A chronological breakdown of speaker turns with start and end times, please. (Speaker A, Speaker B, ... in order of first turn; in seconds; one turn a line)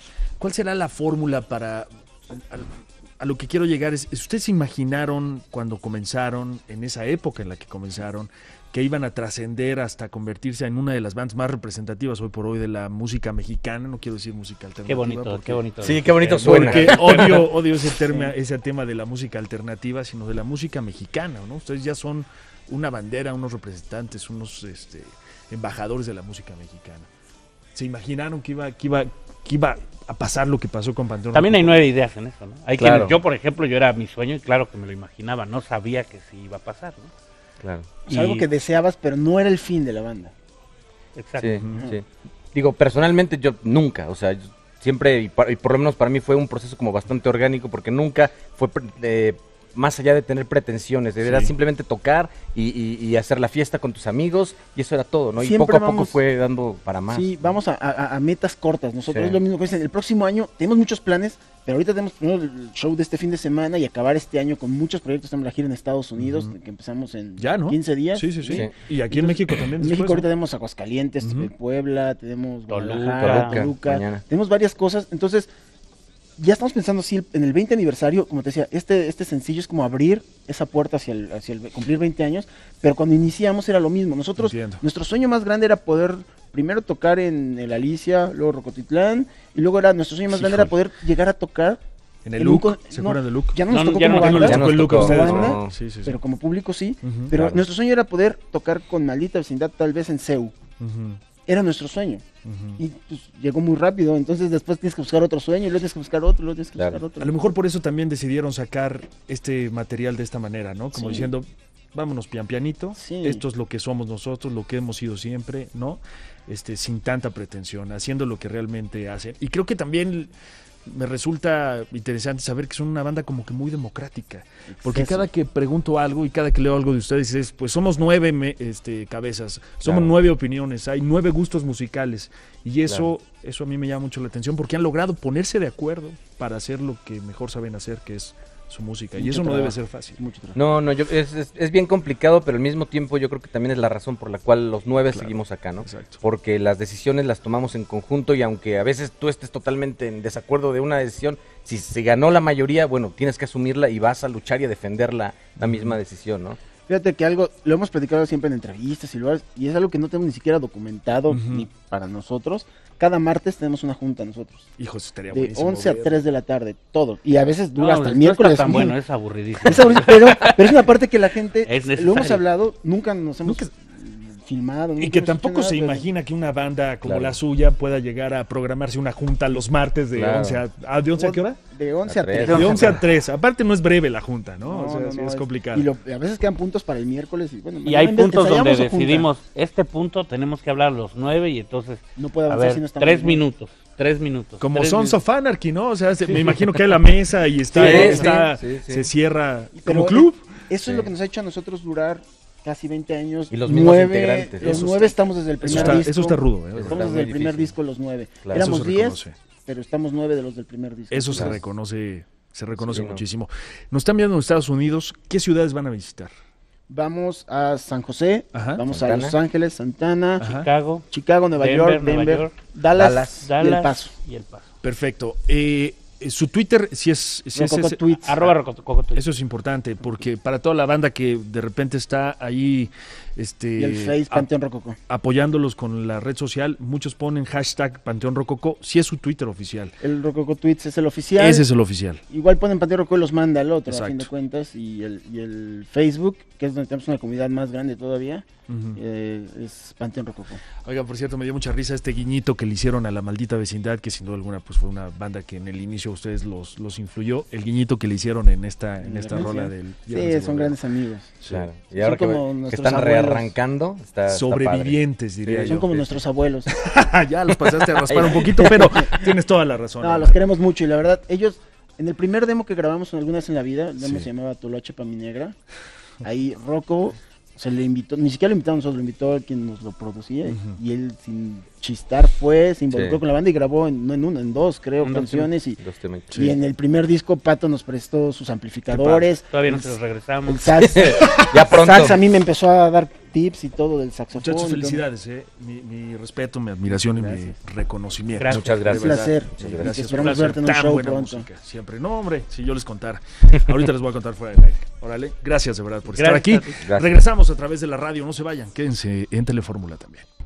Speaker A: 0.4-15.6
Speaker B: 14.9-17.6
Speaker C: 15.8-16.9
Speaker A: 16.4-27.1
Speaker A: 27.8-31.8
Speaker B: 31.3-37.1
Speaker C: 32.8-33.2
Speaker C: 37.6-38.0
Speaker D: 38.1-40.3
Speaker B: 38.1-38.5
Speaker B: 41.2-41.6
Speaker C: 41.4-57.3
Speaker A: 41.6-41.8
Speaker A: 51.2-51.5
Speaker D: 55.4-56.2
Speaker D: 57.1-75.5
Speaker C: 59.1-59.4
Speaker A: 66.2-66.5
Speaker A: 67.4-70.3
Speaker C: 68.5-68.7
Speaker A: 71.2-71.5
Speaker B: 72.7-73.7
Speaker C: 73.2-74.2
Speaker D: 76.4-91.8
Speaker A: 84.4-84.8
Speaker C: 90.4-90.7
Speaker A: 92.2-96.2
Speaker D: 92.4-100.5
Speaker B: 93.7-94.6
Speaker C: 94.4-95.7
Speaker A: 97.0-97.3
Speaker C: 97.3-97.7
Speaker A: 100.8-101.2
Speaker D: 101.5-102.2
Speaker A: 102.5-102.8
Speaker D: 102.8-107.3
Speaker C: 106.8-107.0
Speaker A: 107.2-120.3
Speaker D: 110.9-111.3
Speaker D: 113.0-113.4
Speaker A: 120.9-140.2
Speaker D: 124.7-125.3
Speaker C: 129.8-130.1
Speaker D: 139.2-140.6
Speaker C: 140.6-156.6
Speaker A: 145.1-146.2
Speaker A: 155.6-156.0
Speaker D: 156.9-164.7
Speaker A: 161.3-161.7
Speaker A: 164.8-166.2
Speaker D: 165.3-169.0
Speaker B: 167.8-170.6
Speaker D: 169.6-176.1
Speaker B: 171.6-172.4
Speaker A: 173.4-173.7
Speaker A: 175.0-181.6
Speaker C: 177.0-177.4
Speaker C: 180.2-180.6
Speaker D: 181.2-183.0
Speaker C: 182.0-183.0
Speaker B: 182.4-182.9
Speaker A: 182.5-185.9
Speaker D: 184.6-189.3
Speaker B: 187.8-195.2
Speaker D: 192.2-193.4
Speaker A: 194.6-200.5
Speaker C: 197.7-199.1
Speaker B: 197.8-198.2
Speaker D: 197.9-198.5
Speaker D: 199.8-211.6
Speaker C: 200.8-201.1
Speaker C: 203.5-206.0
Speaker A: 205.6-207.1
Speaker C: 206.8-207.7
Speaker A: 208.6-209.3
Speaker A: 211.1-216.3
Speaker C: 212.9-213.2
Speaker D: 216.9-220.4
Speaker A: 218.5-218.8
Speaker C: 218.9-219.3
Speaker A: 220.4-220.7
Speaker B: 220.4-221.1
Speaker D: 221.1-224.1
Speaker B: 221.6-222.5
Speaker C: 222.9-223.4
Speaker B: 223.3-224.7
Speaker A: 224.8-228.1
Speaker D: 227.6-228.5
Speaker B: 228.2-229.2
Speaker A: 229.2-234.5
Speaker D: 233.8-235.0
Speaker A: 235.1-239.9
Speaker D: 240.0-241.7
Speaker A: 241.4-242.2
Speaker D: 242.3-248.4
Speaker A: 243.9-244.3
Speaker A: 248.7-249.0
Speaker D: 249.0-250.6
Speaker A: 250.8-260.8
Speaker D: 259.0-261.3
Speaker A: 261.4-261.7
Speaker C: 261.5-265.9
Speaker D: 262.0-263.5
Speaker A: 264.3-266.1
Speaker D: 265.7-266.8
Speaker A: 266.7-270.4
Speaker D: 267.7-269.2
Speaker C: 268.1-268.4
Speaker D: 270.0-275.6
Speaker D: 276.2-285.8
Speaker A: 280.5-280.8
Speaker C: 282.9-283.2
Speaker B: 285.0-285.5
Speaker C: 285.8-286.5
Speaker D: 286.4-295.1
Speaker B: 288.9-290.8
Speaker C: 290.9-292.2
Speaker A: 294.4-310.3
Speaker D: 296.9-297.6
Speaker B: 298.4-298.9
Speaker C: 298.5-300.0
Speaker D: 299.0-301.5
Speaker B: 300.1-300.6
Speaker B: 306.1-306.8
Speaker C: 306.9-307.2